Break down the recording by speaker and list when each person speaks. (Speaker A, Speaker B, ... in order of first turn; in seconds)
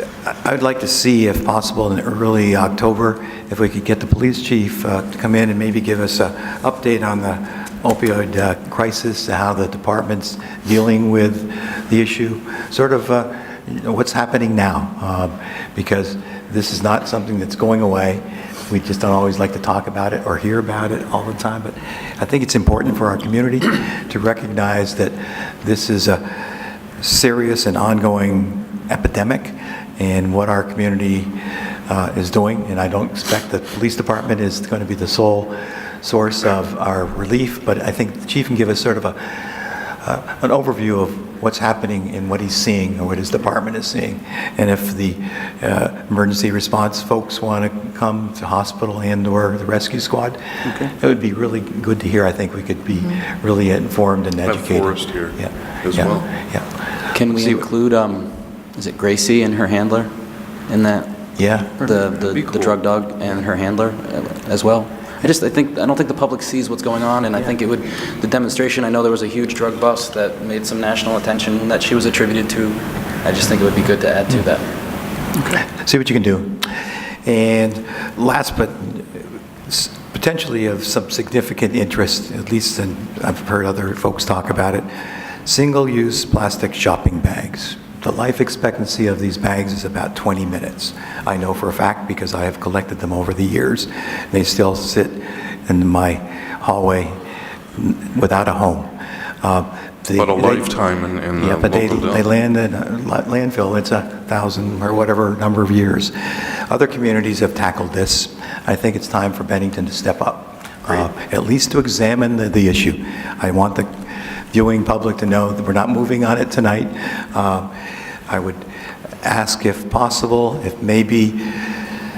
Speaker A: 0.2-56.7, 57.2-57.7, 61.4-61.7, 75.7-76.7, 77.2-84.9, 85.5-97.2, 97.8-98.9, 99.4-100.9, 101.4-113.9, 114.5-117.7, 118.3-118.7, 119.2-121.8
Speaker B: 54.5-56.3, 62.0-62.8, 100.2-102.3
Speaker C: 57.1-60.1, 60.7-61.1, 61.8-74.7